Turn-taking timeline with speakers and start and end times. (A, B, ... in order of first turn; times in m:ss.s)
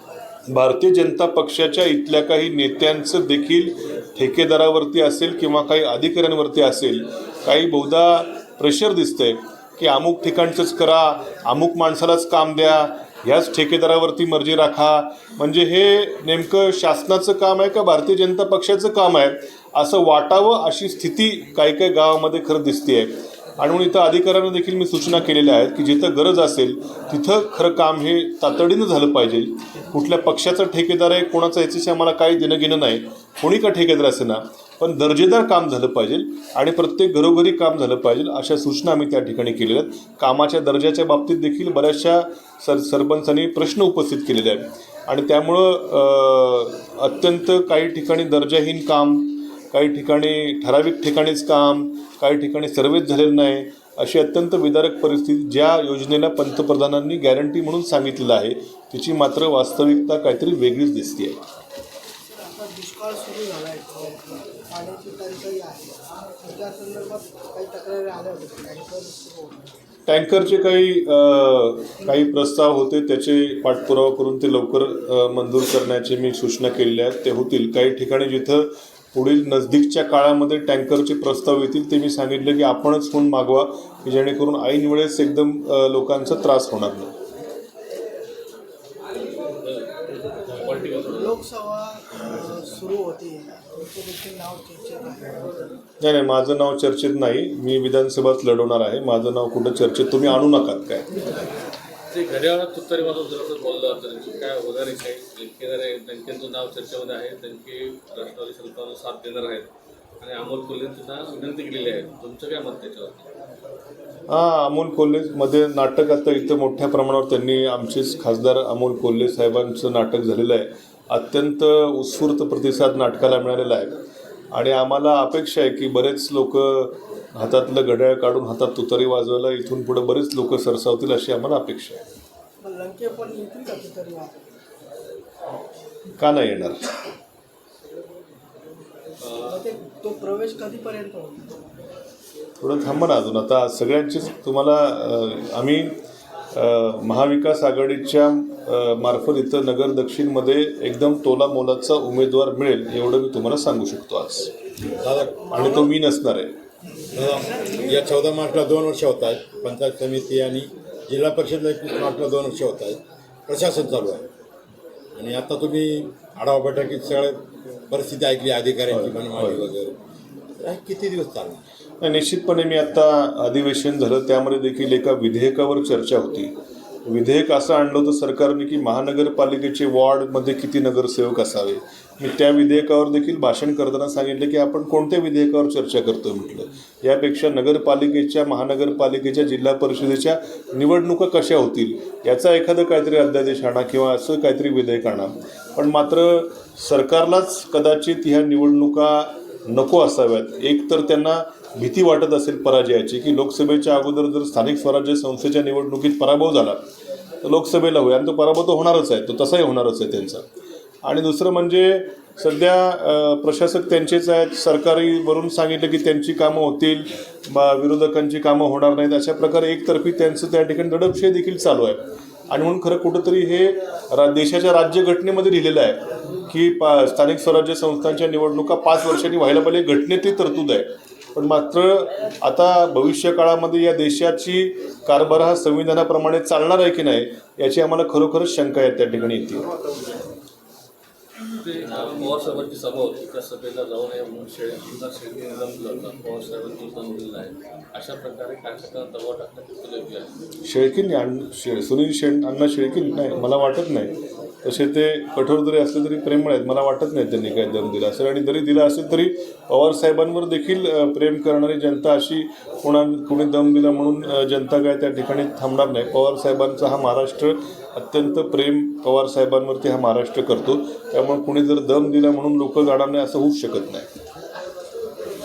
0:00.5-1:01.4 A
1:02.3-1:09.7 B
1:10.0-1:27.1 A
1:29.6-1:29.9 C
1:30.5-1:31.4 C
1:31.1-1:35.5 B
1:36.0-1:41.1 A
1:42.1-1:53.3 C
1:54.3-2:04.0 A
2:04.5-2:12.0 A
2:12.6-2:14.5 B
2:16.2-2:16.8 A
2:19.2-2:19.6 C
2:19.4-2:21.6 B
2:22.6-2:26.0 A
2:26.5-2:34.5 A
2:35.0-2:35.4 D
2:35.3-2:35.9 B
2:35.5-2:36.5 A
2:37.1-2:44.2 D
2:37.3-2:38.4 B
2:45.1-2:50.0 D
2:48.9-2:49.6 A
2:50.6-2:51.6 D
2:52.0-3:26.8 A
3:27.4-3:30.4 A
3:31.0-3:59.7 A
4:01.6-4:10.3 C
4:10.6-4:34.1 A